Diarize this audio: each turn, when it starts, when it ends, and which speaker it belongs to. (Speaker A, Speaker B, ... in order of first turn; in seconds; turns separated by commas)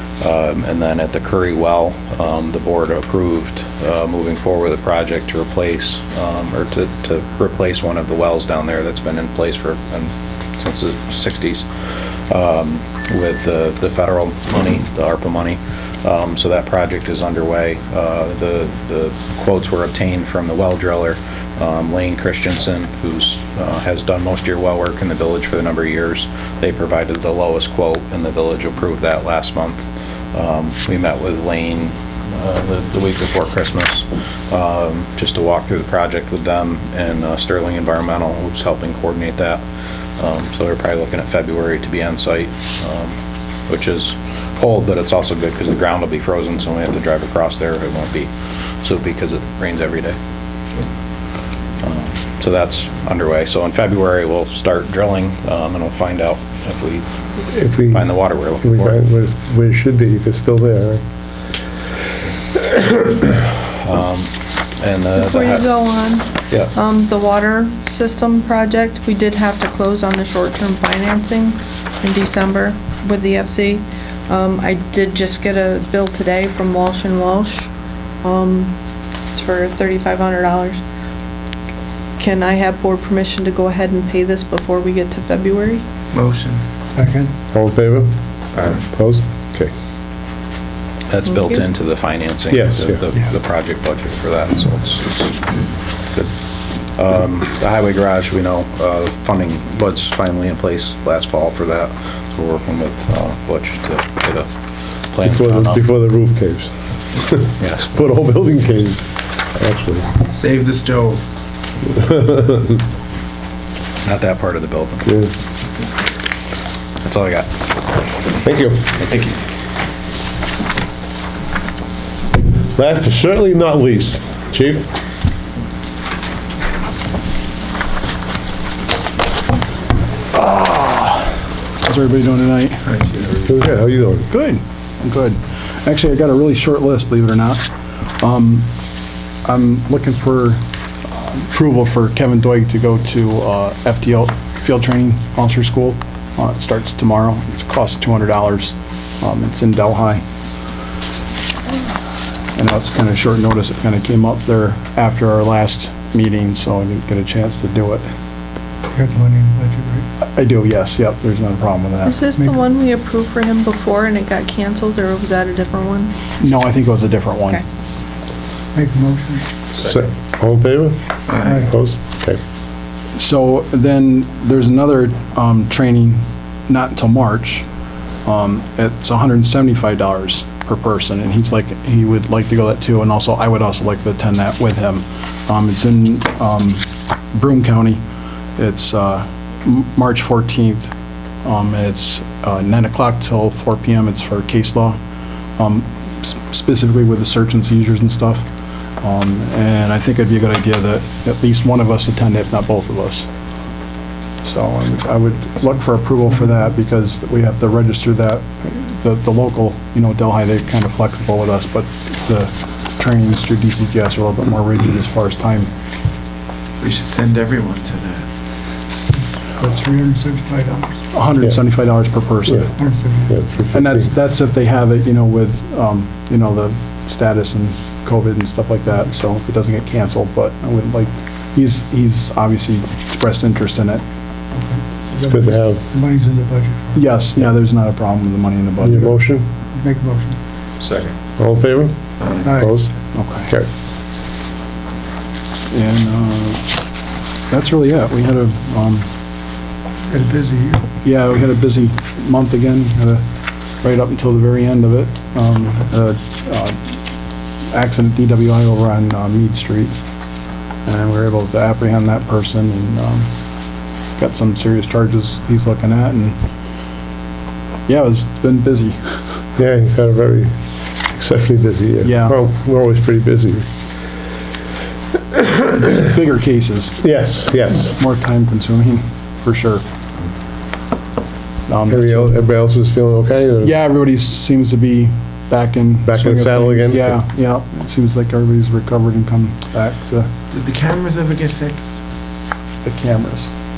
Speaker A: 0.2-11.7, Speaker A: 12.3-39.6, Speaker A: 40.2-43.1, Speaker A: 43.7-48.3, Speaker A: 48.8-50.2, Speaker A: 51.8-57.0, Speaker B: 57.5-58.1, Speaker A: 57.9-59.0, Speaker B: 58.6-61.0, Speaker A: 63.6-65.8, Speaker C: 65.2-77.7, Speaker C: 78.2-78.7, Speaker C: 79.3-80.8, Speaker C: 82.2-85.8, Speaker D: 86.1-86.6, Speaker E: 86.9-87.3, Speaker B: 87.5-89.7, Speaker A: 91.1-95.4, Speaker C: 91.3-91.6, Speaker B: 92.5-93.0, Speaker A: 97.0-104.5, Speaker A: 105.1-105.8, Speaker B: 105.2-110.1, Speaker A: 107.6-107.9, Speaker D: 110.3-111.2, Speaker B: 111.9-112.8, Speaker A: 114.0-115.1, Speaker B: 115.0-115.3, Speaker A: 117.0-117.6, Speaker B: 118.4-119.0, Speaker A: 119.0-119.4, Speaker B: 122.6-124.9, Speaker F: 130.3-133.1, Speaker B: 133.4-134.3, Speaker F: 134.3-137.6, Speaker F: 138.2-138.7, Speaker F: 139.4-150.2, Speaker F: 152.5-158.1, Speaker E: 158.9-160.0, Speaker F: 160.2-162.2, Speaker C: 162.0-166.1, Speaker F: 166.4-167.6, Speaker E: 168.7-169.5, Speaker B: 169.8-172.4, Speaker D: 171.3-171.7, Speaker E: 171.4-171.7, Speaker F: 173.1-177.7, Speaker F: 178.2-188.0, Speaker F: 188.6-190.9, Speaker F: 191.4-195.0, Speaker F: 195.6-198.4, Speaker F: 199.0-203.3, Speaker F: 204.4-215.7, Speaker D: 216.8-218.3, Speaker E: 219.6-221.0, Speaker F: 221.1-222.8, Speaker E: 222.8-223.4, Speaker B: 223.3-224.1, Speaker F: 223.7-234.0, Speaker E: 234.5-237.1, Speaker B: 235.2-235.8, Speaker F: 236.9-239.2, Speaker B: 238.8-239.5, Speaker E: 239.8-240.4, Speaker D: 240.8-241.1, Speaker B: 241.4-242.9, Speaker E: 242.4-242.8, Speaker F: 243.1-243.5, Speaker F: 245.7-246.7, Speaker F: 247.5-249.1, Speaker E: 250.1-250.8, Speaker F: 251.0-253.2, Speaker F: 253.8-257.0, Speaker F: 257.7-259.9, Speaker F: 260.8-263.3, Speaker F: 264.2-266.4, Speaker F: 267.9-269.0, Speaker B: 269.6-270.5, Speaker B: 271.1-273.6, Speaker F: 272.0-272.4, Speaker F: 275.8-277.2, Speaker B: 277.0-277.9, Speaker F: 277.8-279.8, Speaker F: 281.7-282.4, Speaker B: 281.9-283.8, Speaker F: 283.6-290.3, Speaker B: 286.1-287.2, Speaker D: 290.5-292.0, Speaker F: 292.8-293.5